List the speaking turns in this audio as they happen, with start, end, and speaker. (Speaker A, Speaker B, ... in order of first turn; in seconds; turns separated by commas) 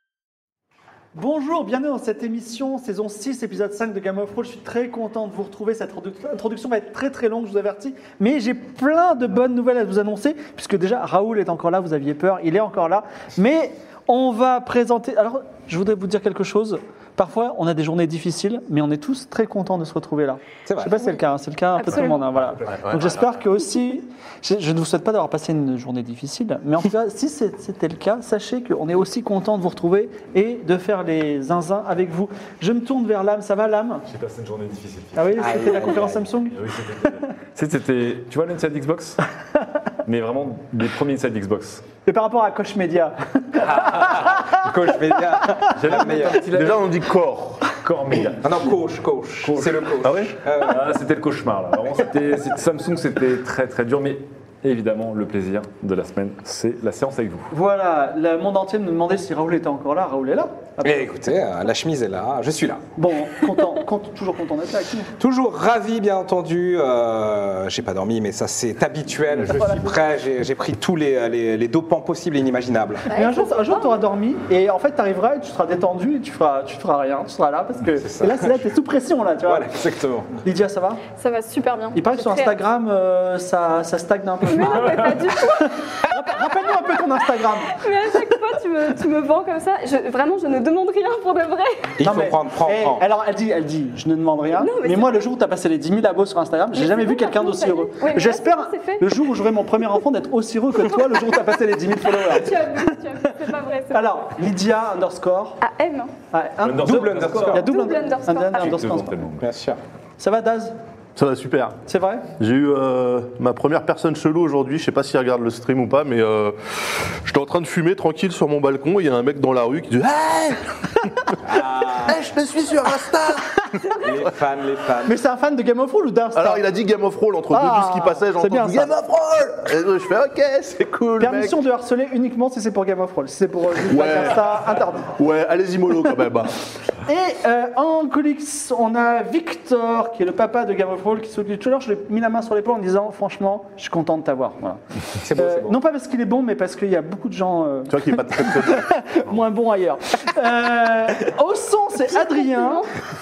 Speaker A: 1.1-34.0, Speaker B: 20.7-21.2, Speaker C: 21.8-22.3, Speaker D: 22.7-23.3, Speaker E: 34.1-36.0, Speaker A: 35.1-36.6, Speaker B: 35.4-36.2, Speaker E: 36.5-39.2, Speaker E: 40.0-41.9, Speaker A: 42.0-44.1, Speaker B: 43.6-46.5, Speaker E: 45.7-46.9, Speaker D: 46.5-47.6, Speaker E: 47.8-48.5, Speaker B: 48.4-51.0, Speaker E: 49.4-57.5, Speaker A: 57.5-61.1, Speaker B: 60.8-62.8, Speaker A: 63.0-65.1, Speaker B: 65.2-73.1, Speaker A: 69.5-69.8, Speaker C: 73.1-74.0, Speaker A: 73.1-79.7, Speaker B: 78.0-78.6, Speaker B: 79.5-80.4, Speaker A: 80.4-81.0, Speaker C: 81.1-82.6, Speaker A: 82.0-87.8, Speaker C: 84.4-85.8, Speaker C: 87.7-91.9, Speaker B: 92.0-93.0, Speaker A: 92.0-102.9, Speaker C: 94.5-95.3, Speaker C: 96.7-99.2, Speaker C: 102.1-104.3, Speaker A: 103.9-105.6, Speaker C: 105.6-106.1, Speaker A: 106.3-109.2, Speaker E: 106.6-107.7, Speaker B: 106.8-107.7, Speaker C: 107.5-108.9, Speaker E: 108.5-109.5, Speaker B: 109.4-109.8, Speaker A: 110.2-110.8, Speaker D: 111.2-111.8, Speaker A: 111.9-112.3, Speaker D: 112.4-120.8, Speaker B: 121.4-122.3, Speaker D: 122.0-123.5, Speaker B: 123.9-125.2, Speaker A: 125.1-126.7, Speaker D: 126.3-131.6, Speaker A: 127.5-128.9, Speaker A: 131.2-135.2, Speaker D: 133.9-136.5, Speaker A: 137.1-144.8, Speaker B: 145.2-145.8, Speaker A: 145.3-152.9, Speaker D: 147.9-148.9, Speaker C: 152.3-152.8